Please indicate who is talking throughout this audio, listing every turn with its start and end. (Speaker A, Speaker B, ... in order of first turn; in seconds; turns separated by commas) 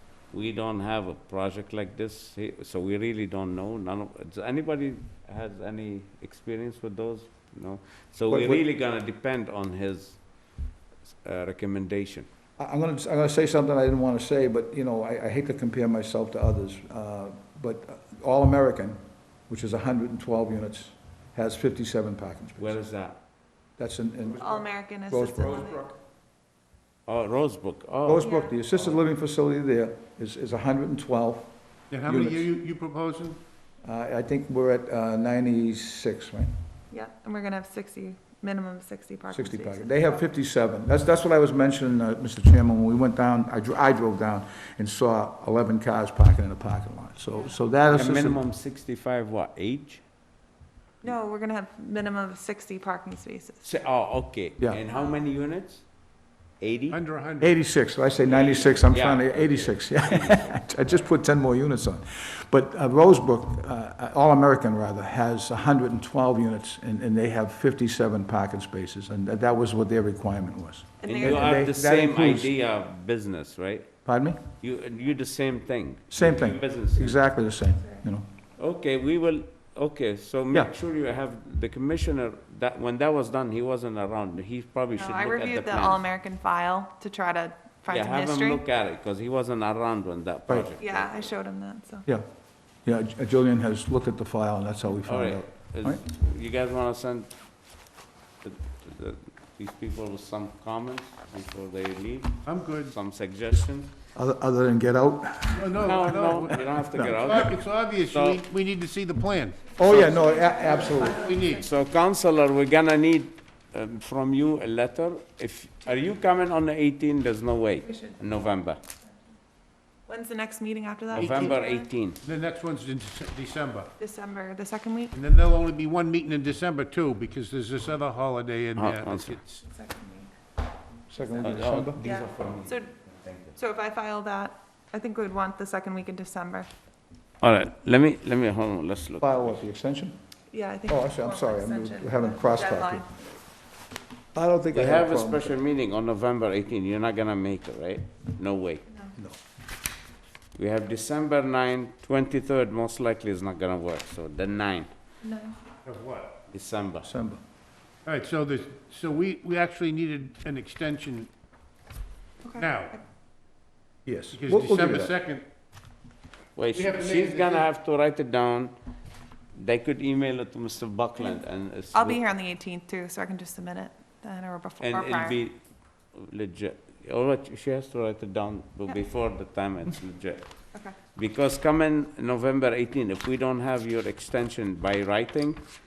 Speaker A: 0.3-10.2, Speaker B: 8.3-8.6, Speaker A: 11.2-12.2, Speaker B: 12.6-19.0, Speaker B: 19.5-22.8, Speaker A: 22.6-23.2, Speaker B: 23.8-25.9, Speaker C: 24.4-25.9, Speaker A: 27.1-29.0, Speaker B: 28.1-31.5, Speaker C: 28.2-28.5, Speaker D: 31.9-33.4, Speaker B: 32.0-32.5, Speaker B: 33.8-36.5, Speaker C: 36.9-40.2, Speaker B: 39.3-48.4, Speaker A: 47.9-50.0, Speaker C: 51.0-53.6, Speaker A: 53.6-55.9, Speaker A: 56.6-57.0, Speaker D: 56.9-57.6, Speaker B: 57.4-72.5, Speaker A: 58.2-60.6, Speaker C: 71.0-71.5, Speaker A: 71.0-73.9, Speaker B: 74.0-74.4, Speaker A: 74.6-77.2, Speaker B: 76.1-78.2, Speaker A: 78.6-86.0, Speaker C: 84.9-88.6, Speaker A: 87.9-91.3, Speaker C: 90.8-92.0, Speaker B: 92.8-96.0, Speaker A: 95.0-97.3, Speaker A: 98.4-103.9, Speaker D: 102.5-102.9, Speaker B: 104.1-107.5, Speaker D: 105.5-110.2, Speaker A: 105.7-107.6, Speaker A: 108.1-108.4, Speaker B: 109.8-111.3, Speaker C: 109.9-111.7, Speaker D: 110.7-111.7, Speaker A: 111.6-118.8, Speaker C: 120.1-121.9, Speaker A: 121.1-122.2, Speaker D: 122.2-123.9, Speaker C: 124.0-125.1, Speaker D: 125.1-129.6, Speaker A: 128.8-129.4, Speaker C: 129.6-130.3, Speaker B: 131.1-132.1, Speaker A: 131.4-133.6, Speaker C: 132.0-132.9, Speaker C: 133.5-136.7, Speaker A: 137.4-139.6, Speaker B: 139.2-140.1, Speaker C: 140.5-143.1, Speaker B: 140.9-143.1, Speaker B: 144.3-145.5, Speaker A: 144.7-148.8, Speaker A: 150.5-154.9, Speaker C: 155.2-155.6, Speaker D: 155.8-156.4, Speaker A: 156.5-157.1, Speaker B: 157.0-157.4, Speaker D: 158.0-161.3, Speaker C: 162.4-163.0, Speaker D: 162.6-162.9, Speaker B: 164.1-165.1, Speaker D: 164.3-165.4, Speaker A: 166.6-168.7, Speaker D: 166.7-167.7, Speaker A: 169.6-172.2, Speaker C: 171.9-175.4, Speaker A: 174.8-175.6, Speaker A: 176.1-180.5, Speaker A: 181.1-185.6